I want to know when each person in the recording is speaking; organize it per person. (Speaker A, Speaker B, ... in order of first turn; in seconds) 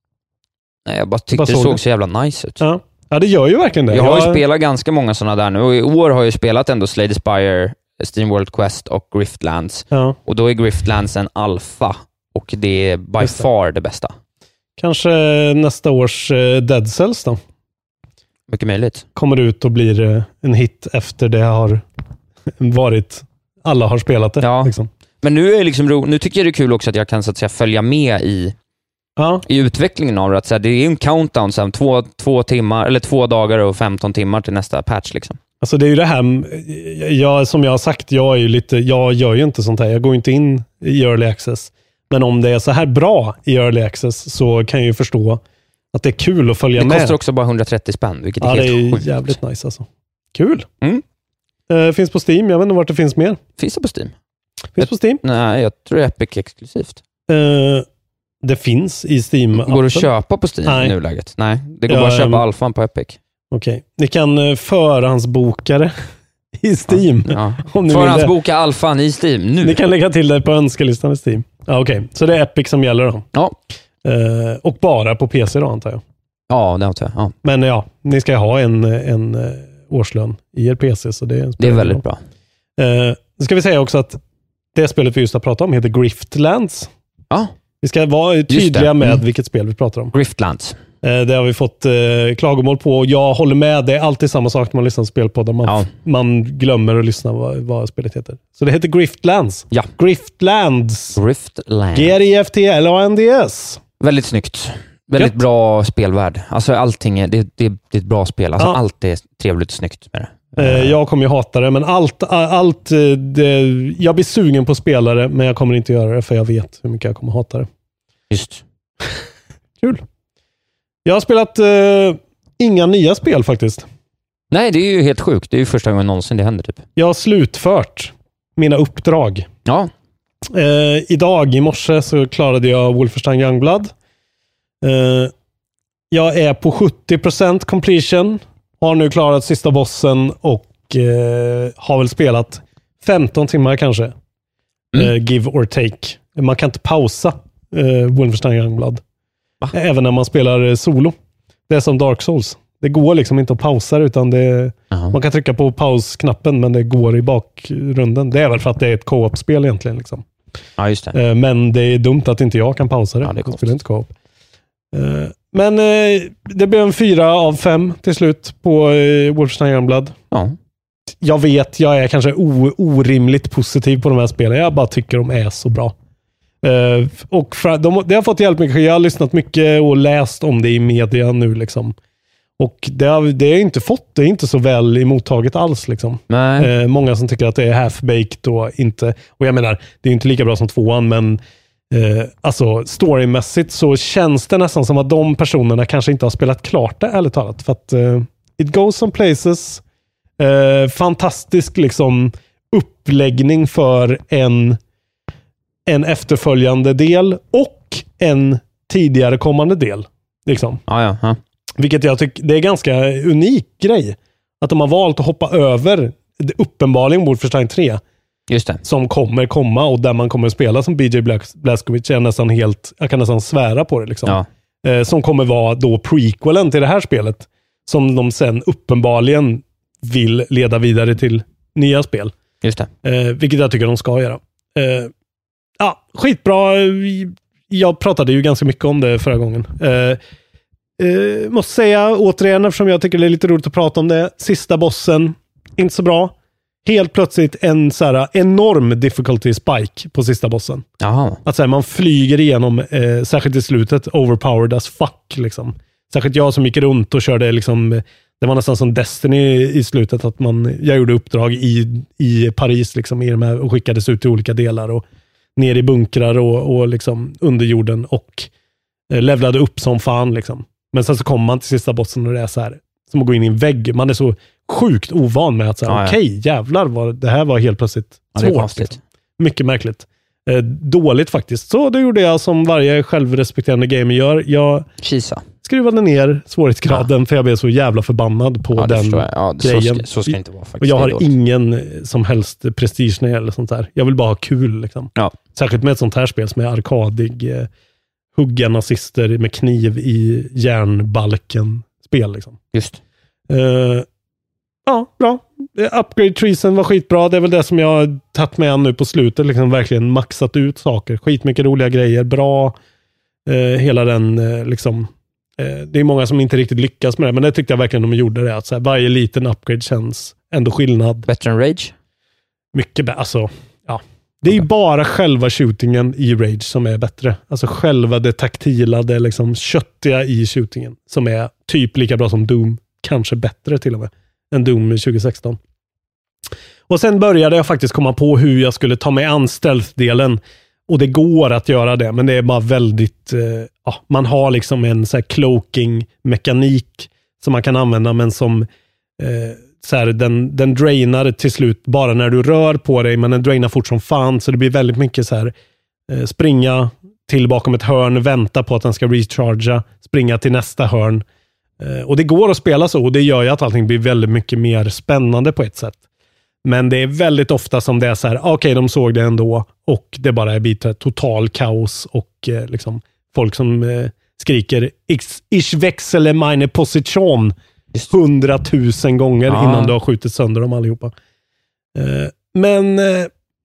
Speaker A: 0.9-2.6, 3.9-14.1, 18.5-19.1, 24.4-28.5, 29.5-35.4, 46.8-49.4, 53.6-54.1, 54.8-57.0, 59.6-63.2, 66.9-69.8, 76.5-77.3, 81.6-82.2, 88.5-89.2, 90.1-90.8, 95.7-95.9, 101.1-102.2, 104.0-111.0, 118.3-118.6, 124.5-126.8, 129.7-129.9, 154.9-155.2, 160.8-161.2, 163.2-163.7, 170.3-170.6, 186.3-186.7, 210.9-211.4, 218.5-218.8, 232.6-232.9, 251.0-251.4, 275.9-276.2, 278.4-279.0, 285.0-285.4, 288.8-291.3, 302.7-303.0, 321.3-321.9, 379.5-380.0
Speaker B: 1.3-1.8, 2.6-4.4, 9.9-10.2, 13.2-13.5, 14.8-17.4, 19.1-21.9, 22.6-24.9, 29.2-29.4, 35.6-45.4, 45.9-47.2, 48.4-50.7, 51.7-53.4, 54.8-55.2, 57.3-57.9, 58.4-60.1, 60.6-61.0, 61.9-62.4, 63.5-65.9, 66.6-68.4, 69.6-73.3, 74.0-76.0, 77.4-82.0, 82.8-84.2, 84.8-86.9, 87.8-90.1, 91.0-101.2, 101.9-103.8, 110.6-117.7, 121.0-123.9, 127.0-129.5, 130.5-133.9, 134.8-135.3, 136.1-144.1, 144.9-149.0, 149.7-151.2, 151.7-160.2, 161.1-164.1, 164.9-170.2, 171.2-175.9, 176.6-181.9, 182.6-199.8, 200.4-204.8, 205.9-210.8, 211.8-218.0, 218.8-232.3, 233.0-235.1, 235.8-240.2, 241.0-246.3, 246.8-250.8, 251.4-265.0, 265.6-268.5, 269.1-284.9, 285.6-297.7, 298.4-302.6, 303.5-304.1, 304.9-312.8, 313.5-321.3, 322.7-335.6, 336.9-348.7, 349.2-355.5, 356.1-361.2, 361.8-366.0, 366.6-377.6, 378.1-381.1, 381.9-383.3